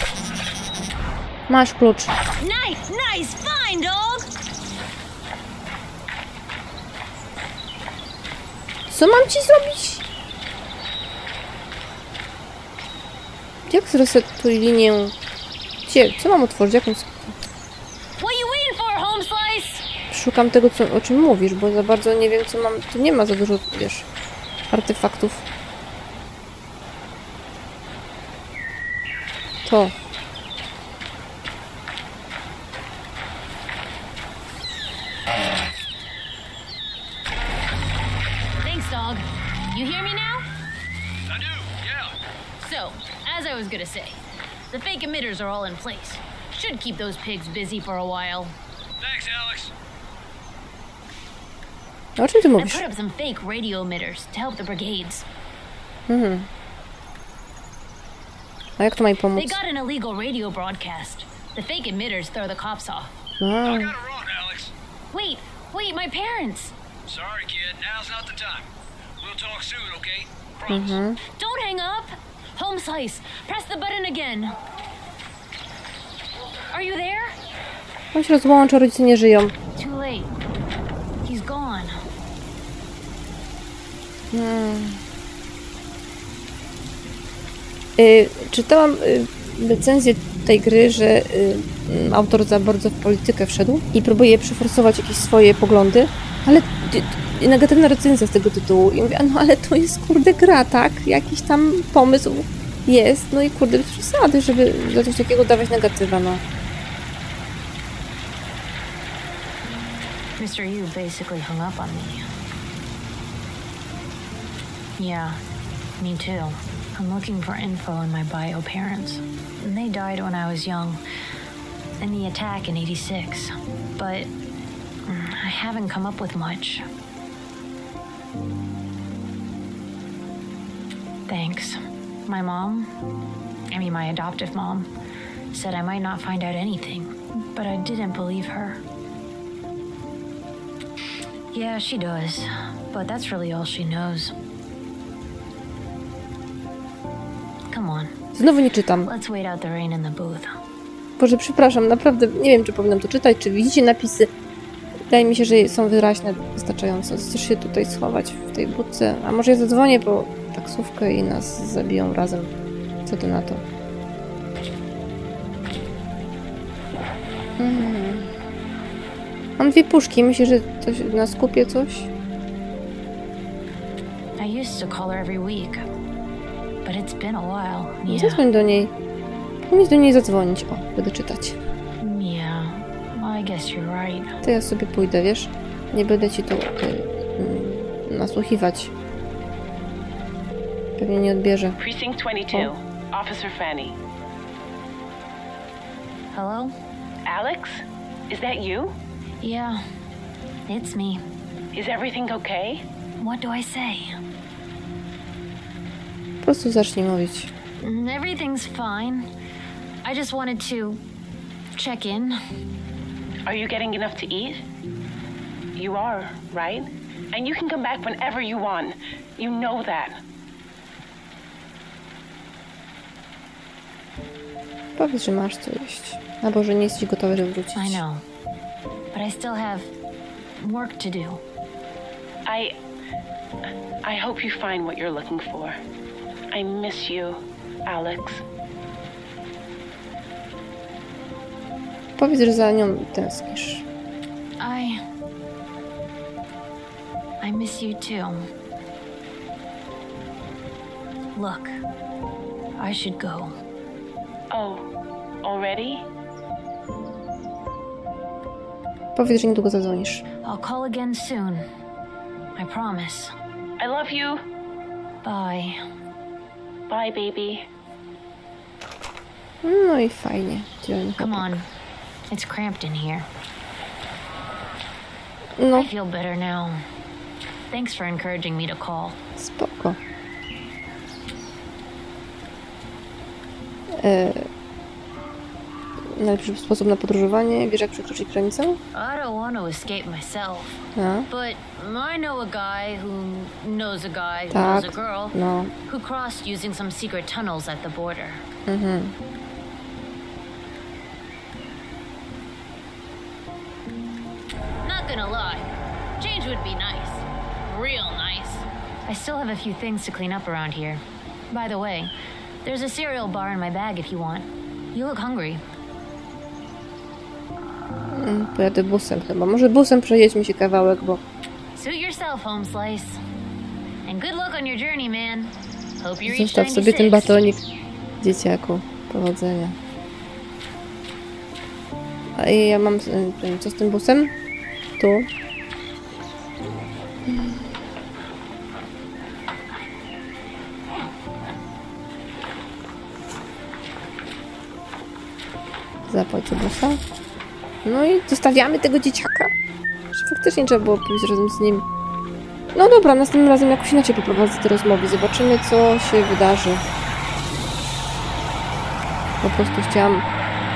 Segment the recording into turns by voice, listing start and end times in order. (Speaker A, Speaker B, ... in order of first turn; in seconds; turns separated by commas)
Speaker A: 1.5-2.1, Speaker B: 2.4-4.3, Speaker A: 8.9-10.0, Speaker A: 13.7-15.1, Speaker A: 15.8-17.4, Speaker B: 18.2-19.8, Speaker A: 20.1-24.1, Speaker A: 24.7-25.4, Speaker A: 29.6-29.9, Speaker B: 38.6-40.5, Speaker C: 41.3-42.1, Speaker B: 42.6-44.2, Speaker B: 44.7-48.5, Speaker C: 49.0-49.7, Speaker A: 52.2-52.8, Speaker B: 52.6-55.2, Speaker A: 56.1-56.5, Speaker A: 58.8-59.6, Speaker B: 59.4-63.1, Speaker A: 63.4-63.9, Speaker C: 63.6-64.7, Speaker B: 65.1-66.7, Speaker C: 67.0-68.7, Speaker C: 69.2-71.0, Speaker A: 70.7-71.2, Speaker B: 71.4-74.5, Speaker B: 76.7-77.3, Speaker A: 78.1-79.5, Speaker B: 79.8-80.3, Speaker B: 81.2-82.0, Speaker A: 84.3-85.0, Speaker A: 88.0-106.4, Speaker B: 110.4-112.2, Speaker B: 115.0-115.4, Speaker B: 116.0-121.0, Speaker B: 122.0-124.3, Speaker B: 125.0-126.8, Speaker B: 131.3-132.9, Speaker B: 133.7-134.9, Speaker B: 135.5-138.8, Speaker B: 141.5-144.3, Speaker B: 147.7-148.1, Speaker A: 148.3-149.1, Speaker B: 149.1-150.5, Speaker A: 151.2-154.3, Speaker A: 155.1-162.5, Speaker A: 163.1-163.6, Speaker A: 167.6-168.3, Speaker A: 169.6-172.1, Speaker B: 174.4-175.8, Speaker B: 176.8-178.4, Speaker A: 178.1-178.9, Speaker A: 179.6-181.6, Speaker B: 182.0-184.3, Speaker A: 184.4-188.9, Speaker A: 191.0-191.8, Speaker D: 191.8-194.0, Speaker B: 196.3-196.7, Speaker D: 197.2-198.9, Speaker B: 199.4-199.8, Speaker B: 200.7-201.2, Speaker D: 201.7-202.8, Speaker B: 203.2-204.1, Speaker A: 206.4-207.5, Speaker B: 207.8-209.3, Speaker B: 210.0-211.0, Speaker B: 211.7-212.4, Speaker D: 213.4-214.6, Speaker D: 215.8-220.2, Speaker A: 224.9-228.0, Speaker B: 227.7-228.2, Speaker B: 229.1-229.9, Speaker B: 230.6-231.4, Speaker D: 232.5-232.7, Speaker D: 234.0-235.8, Speaker D: 236.5-238.4, Speaker A: 242.2-243.8, Speaker B: 244.6-245.0, Speaker B: 247.4-248.4, Speaker B: 251.3-251.8, Speaker B: 252.8-253.5, Speaker D: 254.5-254.8, Speaker D: 255.4-256.0, Speaker A: 259.1-260.2, Speaker B: 260.4-261.6, Speaker B: 262.6-263.3, Speaker D: 263.8-264.4, Speaker B: 265.2-265.8, Speaker D: 266.9-267.6, Speaker A: 269.6-271.6, Speaker B: 271.2-271.7, Speaker B: 272.3-273.3, Speaker A: 275.6-275.9, Speaker B: 275.7-276.8, Speaker B: 277.7-279.2, Speaker A: 279.4-280.0, Speaker A: 284.0-284.4, Speaker A: 286.1-288.8, Speaker B: 288.9-295.4, Speaker A: 290.9-291.3, Speaker A: 294.5-295.7, Speaker B: 295.9-298.4, Speaker A: 298.7-299.1, Speaker B: 304.8-305.6, Speaker B: 306.2-312.1, Speaker B: 312.6-315.6, Speaker A: 318.1-321.2, Speaker B: 321.7-323.2, Speaker B: 324.0-327.4, Speaker A: 326.2-327.6, Speaker A: 328.2-329.8, Speaker A: 332.4-334.3, Speaker A: 335.0-335.3, Speaker A: 337.3-337.7, Speaker A: 346.1-347.0, Speaker A: 347.8-349.5, Speaker A: 350.1-351.8, Speaker A: 352.7-356.8, Speaker A: 359.4-360.2